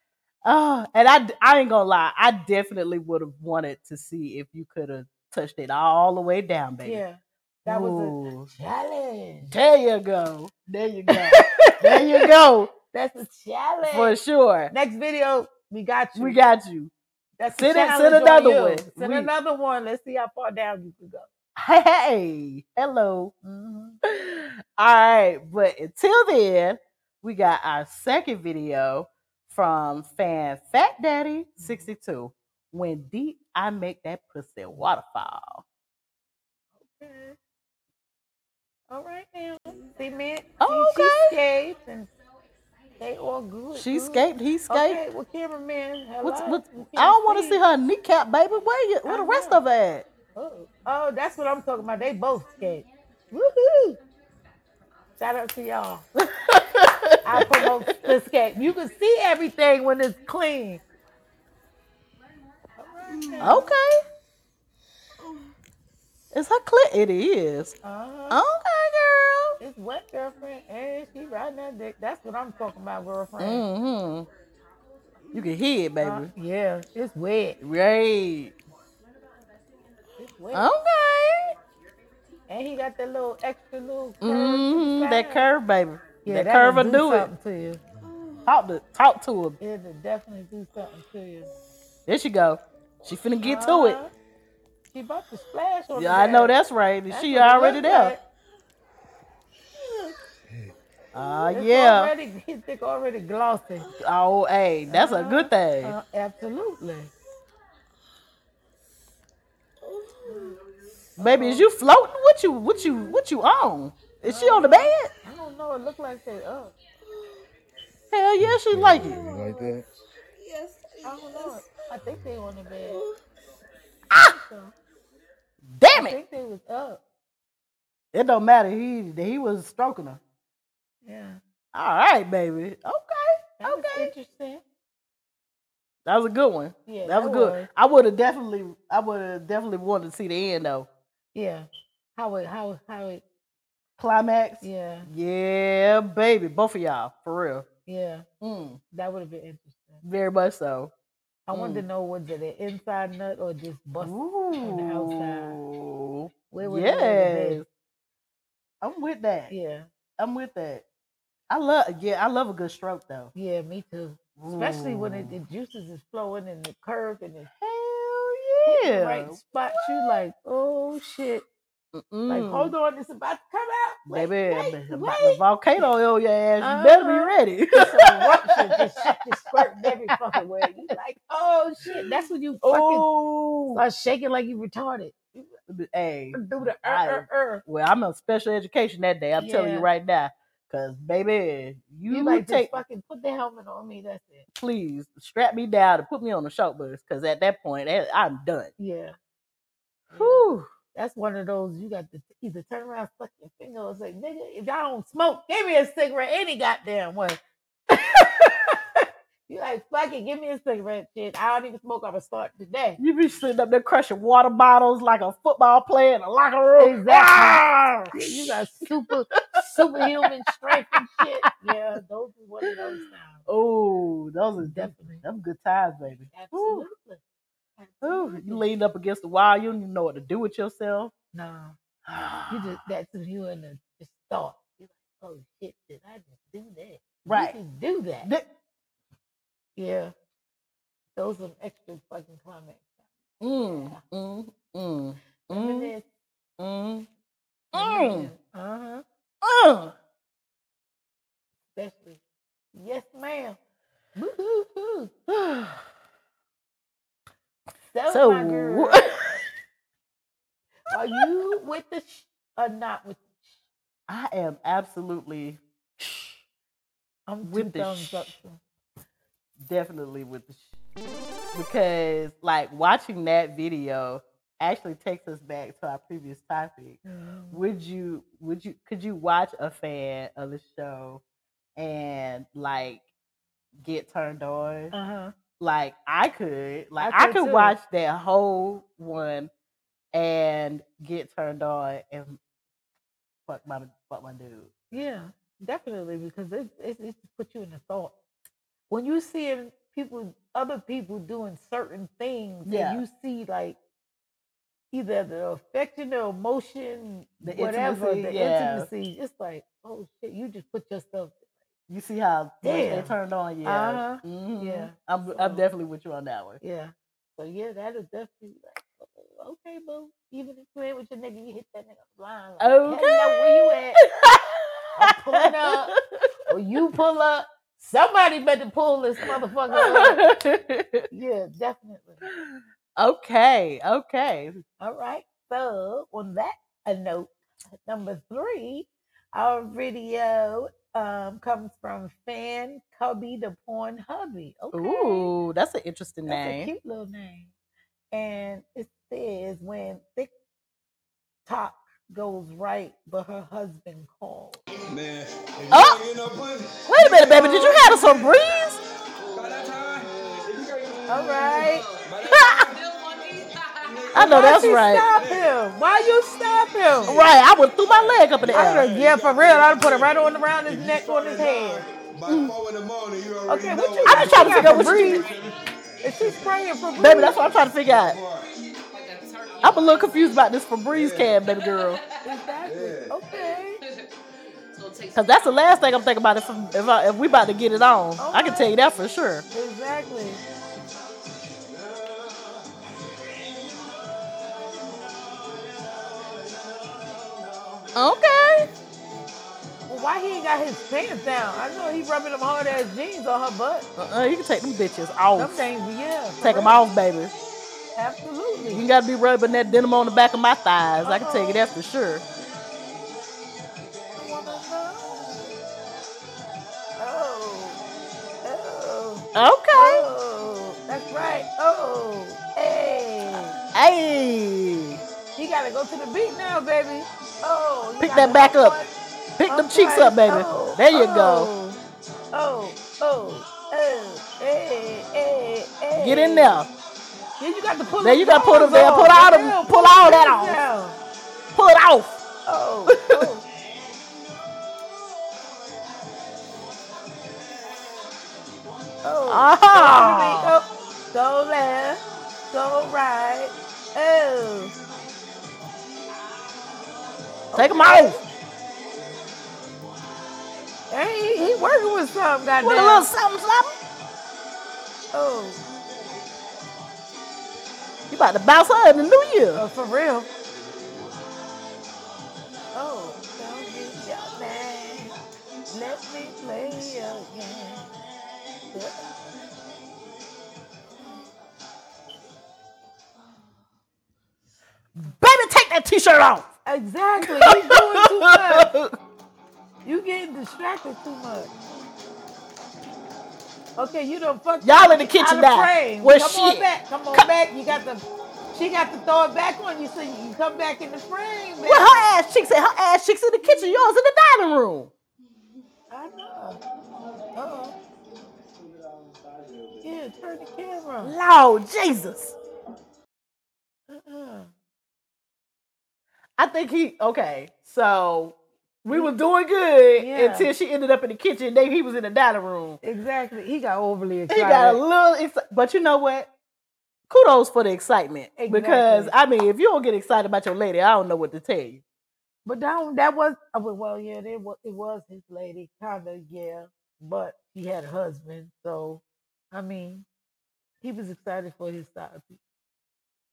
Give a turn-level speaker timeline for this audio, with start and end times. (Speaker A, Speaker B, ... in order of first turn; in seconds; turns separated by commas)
Speaker A: 0.5-7.0, Speaker B: 6.8-9.6, Speaker A: 7.7-8.5, Speaker A: 9.5-12.7, Speaker B: 11.1-14.2, Speaker A: 13.9-14.7, Speaker B: 14.7-16.4, Speaker A: 16.1-16.9, Speaker B: 17.4-21.3, Speaker A: 17.5-19.3, Speaker A: 21.6-23.3, Speaker B: 23.4-24.0, Speaker A: 24.1-35.6, Speaker B: 31.6-31.9, Speaker B: 36.8-37.4, Speaker B: 38.9-42.1, Speaker A: 40.6-41.4, Speaker B: 43.0-47.6, Speaker A: 43.7-45.0, Speaker A: 46.2-50.1, Speaker B: 49.0-49.6, Speaker B: 50.4-54.0, Speaker B: 55.2-56.0, Speaker A: 56.1-57.8, Speaker B: 57.2-60.8, Speaker B: 62.8-63.7, Speaker A: 63.4-64.0, Speaker A: 66.3-67.8, Speaker B: 67.8-68.4, Speaker A: 68.3-69.6, Speaker B: 69.6-73.7, Speaker A: 73.4-74.3, Speaker A: 75.3-76.3, Speaker B: 76.0-77.6, Speaker A: 77.6-78.5, Speaker B: 80.2-80.7, Speaker A: 80.5-81.5, Speaker B: 82.5-85.5, Speaker A: 84.2-87.3, Speaker B: 86.2-87.8, Speaker A: 88.5-89.6, Speaker B: 89.6-91.5, Speaker A: 92.1-94.0, Speaker B: 93.4-94.1, Speaker B: 94.9-96.6, Speaker A: 96.0-98.2, Speaker B: 97.1-98.2, Speaker A: 101.1-102.1, Speaker B: 101.5-103.9, Speaker A: 104.0-106.0, Speaker B: 104.9-107.1, Speaker B: 110.2-110.6, Speaker A: 111.2-115.1, Speaker B: 111.2-111.7, Speaker B: 114.2-116.8, Speaker A: 118.1-119.2, Speaker C: 118.4-119.9, Speaker B: 121.0-123.0, Speaker B: 124.1-124.7, Speaker A: 125.7-126.2, Speaker B: 125.9-127.0, Speaker A: 128.1-130.2, Speaker B: 131.1-131.4, Speaker A: 131.7-134.1, Speaker B: 133.6-134.6, Speaker A: 136.1-140.9, Speaker B: 136.9-137.7, Speaker B: 141.3-143.2, Speaker A: 144.0-147.7, Speaker B: 144.6-145.1, Speaker B: 147.9-148.2, Speaker A: 148.4-148.8, Speaker B: 148.9-150.0, Speaker A: 150.0-150.9, Speaker B: 151.5-155.6, Speaker A: 151.5-151.8, Speaker A: 154.0-157.7, Speaker B: 156.5-157.6, Speaker A: 158.8-159.5, Speaker B: 159.5-159.9, Speaker A: 160.2-160.8, Speaker A: 161.5-163.3, Speaker B: 163.3-167.5, Speaker A: 164.4-165.3, Speaker A: 167.6-170.2, Speaker B: 168.7-171.5, Speaker A: 171.9-172.7, Speaker B: 172.3-175.9, Speaker A: 174.1-180.2, Speaker B: 176.6-183.1, Speaker A: 182.6-183.8, Speaker B: 183.7-185.5, Speaker A: 185.7-192.8, Speaker B: 186.3-187.6, Speaker B: 189.4-189.9, Speaker B: 192.1-194.5, Speaker A: 194.5-198.7, Speaker B: 198.8-199.2, Speaker B: 200.1-213.0, Speaker A: 200.2-200.7, Speaker A: 213.0-218.2, Speaker B: 216.8-223.4, Speaker A: 219.1-221.0, Speaker A: 223.5-226.9, Speaker B: 224.6-225.2, Speaker B: 226.3-227.2, Speaker B: 227.8-228.7, Speaker A: 228.0-231.1, Speaker B: 231.3-231.8, Speaker A: 232.1-232.7, Speaker B: 232.5-238.3, Speaker A: 237.3-237.6, Speaker B: 239.8-240.1, Speaker B: 241.2-243.0, Speaker A: 243.4-245.9, Speaker B: 243.6-244.0, Speaker B: 245.5-246.1, Speaker A: 246.6-247.1, Speaker A: 247.7-248.3, Speaker B: 247.7-249.0, Speaker A: 249.4-249.9, Speaker B: 251.8-252.2, Speaker B: 252.7-253.6, Speaker B: 254.2-255.1, Speaker A: 255.3-255.8, Speaker B: 257.9-259.2, Speaker A: 258.1-259.4, Speaker B: 260.9-263.3, Speaker A: 264.1-266.4, Speaker B: 267.3-268.6, Speaker A: 267.4-268.4, Speaker A: 269.6-270.6, Speaker A: 271.5-277.0, Speaker B: 277.1-277.6, Speaker A: 277.5-281.2, Speaker A: 281.8-283.0, Speaker A: 283.8-284.9, Speaker B: 284.9-285.3, Speaker A: 285.6-289.5, Speaker B: 287.0-287.8, Speaker A: 290.1-292.4, Speaker A: 293.5-294.7, Speaker B: 294.9-298.1, Speaker B: 298.9-303.8, Speaker A: 302.7-303.0, Speaker B: 304.9-311.5, Speaker A: 307.4-308.9, Speaker A: 311.9-316.6, Speaker B: 312.6-313.1, Speaker B: 313.6-315.6, Speaker B: 316.6-324.0, Speaker A: 322.6-326.3, Speaker B: 325.0-326.0, Speaker B: 326.5-330.2, Speaker A: 329.7-331.1, Speaker B: 331.1-332.2, Speaker A: 332.3-334.6, Speaker B: 334.8-337.3, Speaker B: 337.9-345.3, Speaker A: 344.7-346.7, Speaker B: 346.3-347.5, Speaker B: 348.1-350.3, Speaker B: 351.5-354.6, Speaker C: 354.9-356.8, Speaker A: 355.7-356.0, Speaker A: 356.9-358.8, Speaker B: 357.0-358.0, Speaker C: 359.4-361.0, Speaker B: 361.1-361.9, Speaker A: 362.2-362.7, Speaker A: 364.1-365.1, Speaker B: 364.1-367.3, Speaker A: 367.1-368.9, Speaker B: 368.5-371.9, Speaker A: 372.3-372.6, Speaker C: 373.4-374.8, Speaker B: 373.5-375.3, Speaker A: 374.1-375.3, Speaker B: 376.0-377.4, Speaker A: 377.0-378.2, Speaker A: 379.6-382.0, Speaker B: 382.2-383.8, Speaker A: 385.1-389.4, Speaker B: 388.2-388.7, Speaker B: 389.5-390.4, Speaker A: 397.9-398.7, Speaker B: 399.9-403.9, Speaker A: 404.0-405.6, Speaker B: 405.4-406.8, Speaker A: 406.4-407.4, Speaker B: 408.0-408.9, Speaker A: 408.7-412.2, Speaker B: 411.0-411.7, Speaker B: 414.1-415.3, Speaker B: 417.0-417.8, Speaker B: 418.4-423.6, Speaker A: 419.4-420.1, Speaker A: 423.7-425.0, Speaker B: 425.4-428.9, Speaker A: 428.0-428.8, Speaker A: 429.4-431.5, Speaker B: 429.5-431.8, Speaker B: 432.3-436.6, Speaker A: 435.9-436.7, Speaker B: 437.4-441.0, Speaker A: 438.0-440.6, Speaker A: 441.5-442.2, Speaker B: 442.5-443.4, Speaker A: 442.9-443.3, Speaker B: 449.0-454.7, Speaker A: 449.3-450.6, Speaker B: 457.5-458.3, Speaker A: 457.6-458.2, Speaker B: 460.9-463.1, Speaker A: 462.6-463.7, Speaker B: 465.1-465.6, Speaker A: 468.1-469.6, Speaker B: 469.5-470.3, Speaker B: 472.7-475.2, Speaker B: 475.7-477.9, Speaker B: 478.7-479.1, Speaker A: 485.0-486.5, Speaker B: 486.7-488.7, Speaker A: 487.2-488.9, Speaker B: 489.8-491.5, Speaker B: 493.8-502.0, Speaker A: 494.6-497.3, Speaker A: 501.6-504.9, Speaker B: 503.4-503.9, Speaker B: 505.9-506.6, Speaker B: 507.4-507.8, Speaker B: 509.8-511.1, Speaker A: 511.0-512.4, Speaker B: 513.9-514.5, Speaker A: 516.4-522.8, Speaker B: 520.0-520.5, Speaker B: 522.8-524.8, Speaker A: 524.3-526.3, Speaker A: 527.1-531.8, Speaker B: 528.4-529.1, Speaker B: 532.5-540.1, Speaker B: 540.8-542.4